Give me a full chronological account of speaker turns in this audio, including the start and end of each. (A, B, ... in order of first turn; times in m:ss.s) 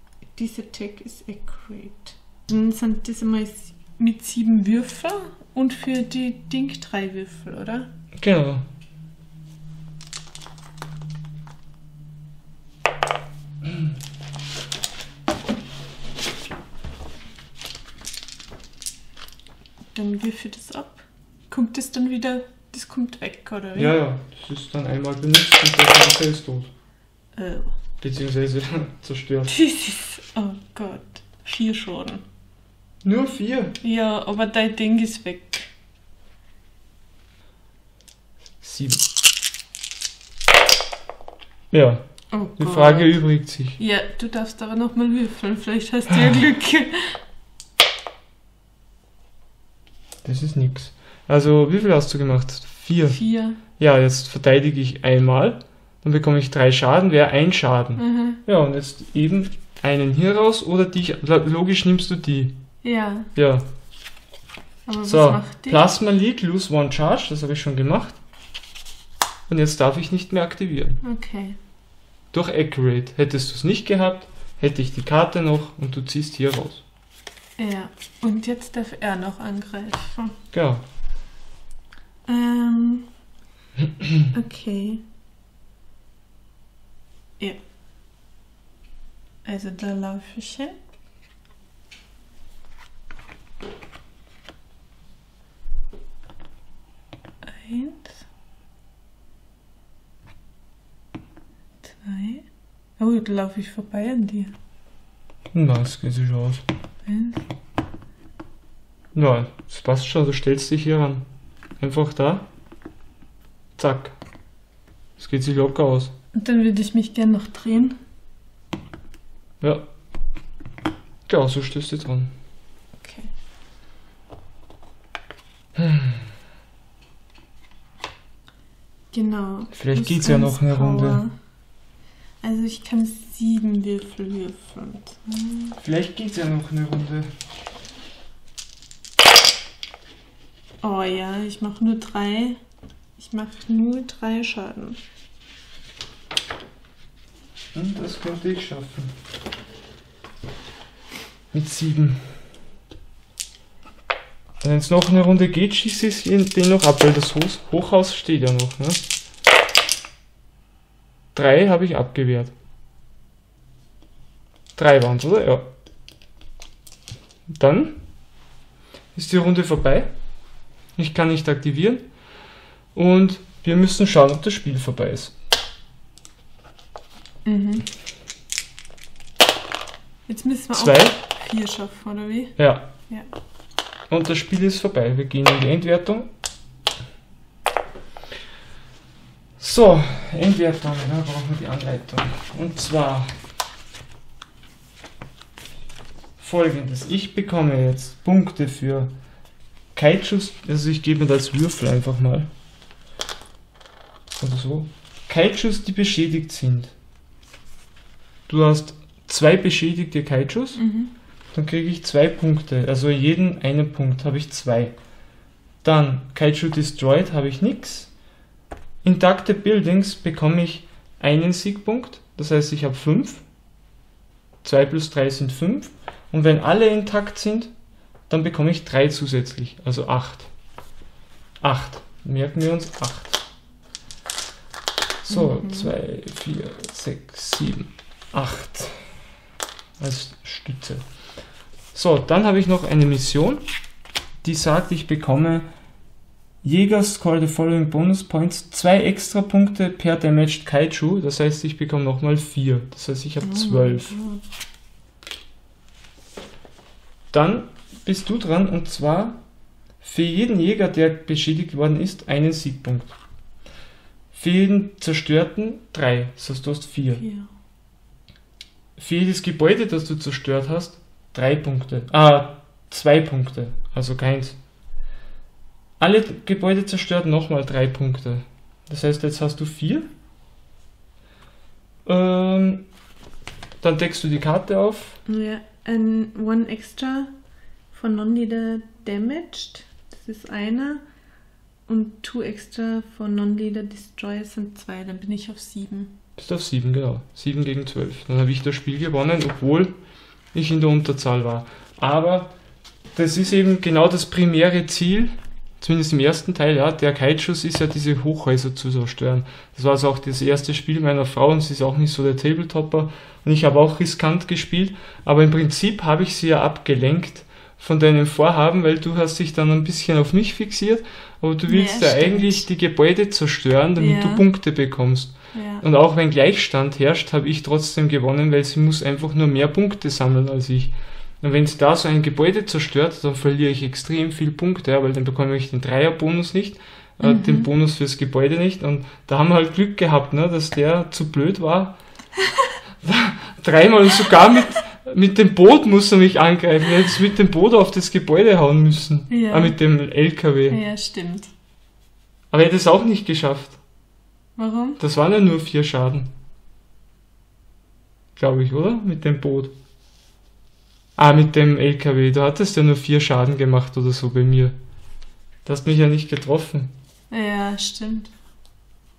0:00.3-0:07.9 A
0:08.2-0:08.6 B
0:19.9-0:24.0 A
0:23.8-0:26.7 B
0:27.4-0:27.8 A
0:28.0-0:29.6 B
0:29.5-0:32.2 A
0:33.0-0:33.8 B
0:33.8-0:35.7 A
0:38.6-0:39.0 B
0:41.7-0:42.0 B
0:42.3-0:43.2 A
0:42.6-0:43.8 B
0:43.8-0:47.2 A
0:50.2-0:53.2 B
0:53.1-0:53.6 A
0:53.8-1:02.6 B
0:58.0-0:58.4 A
1:02.8-1:03.3 A
1:03.4-1:03.7 B
1:04.9-1:05.8 A
1:05.0-1:08.2 B
1:09.5-1:11.0 B
1:11.0-1:11.6 A
1:12.3-1:16.8 B
1:17.6-1:20.4 A
1:20.5-1:20.8 B
1:22.3-1:23.1 A
1:24.0-1:24.3 B
1:24.3-1:25.0 A
1:29.4-1:30.8 A
1:37.4-1:38.2 A
1:41.8-1:42.4 A
1:43.0-1:44.6 A
1:45.5-1:46.6 B
1:47.0-1:47.4 A
1:49.2-1:51.2 B
1:51.8-1:52.5 B
1:53.8-1:54.2 B
1:55.2-1:56.1 B
1:56.3-1:58.0 A
1:59.6-1:59.9 B
2:01.3-2:02.3 B
2:03.0-2:03.3 A
2:05.8-2:06.3 B
2:09.1-2:11.3 A
2:09.7-2:11.2 B
2:12.4-2:15.8 A
2:15.8-2:17.3 B
2:20.8-2:22.6 A
2:23.2-2:25.0 A
2:27.7-2:29.1 B
2:31.5-2:32.3 B
2:34.6-2:39.0 B
2:41.4-2:42.5 B
2:44.8-2:45.7 B
2:47.5-2:48.0 B
2:49.2-2:50.1 B
2:51.0-2:52.1 B
2:53.0-2:55.3 B
2:57.4-2:57.9 A
3:00.3-3:03.3 A
3:00.7-3:01.2 B
3:02.6-3:02.9 B
3:04.1-3:06.3 B
3:09.6-3:13.3 B
3:16.4-3:19.1 B
3:20.0-3:22.5 B
3:24.4-3:26.9 B
3:28.5-3:30.8 B
3:30.8-3:31.1 A
3:31.5-3:34.9 B
3:35.8-3:38.1 B
3:39.0-3:43.4 B
3:44.6-3:47.7 B
3:48.3-3:50.5 B
3:51.6-3:53.4 B
3:55.2-3:59.0 B
3:55.3-3:55.9 A
4:00.0-4:01.0 B
4:01.9-4:03.6 B
4:04.4-4:05.7 B
4:06.6-4:14.2 B
4:13.4-4:14.4 A
4:17.3-4:19.4 B
4:20.0-4:23.2 B
4:24.3-4:27.2 B
4:27.2-4:27.5 A
4:29.0-4:34.6 B
4:36.0-4:40.1 B
4:42.1-4:42.9 B
4:43.8-4:45.2 B
4:45.3-4:47.3 A
4:47.9-4:51.0 A
4:51.9-4:56.2 A
4:56.4-5:00.0 B
5:00.5-5:02.5 B
5:03.2-5:42.0 B
5:21.7-5:22.6 A
5:24.0-5:24.4 A
5:25.5-5:25.8 A
5:37.2-5:37.7 A
5:42.4-5:42.7 A
5:43.0-5:50.8 B
5:49.3-5:49.8 A
5:50.7-5:51.5 A
5:52.5-5:53.8 B
5:54.6-5:55.0 A
5:55.0-5:56.3 B
5:58.4-5:59.7 B
6:01.2-6:04.8 B
6:05.6-6:06.9 B
6:07.3-6:08.3 A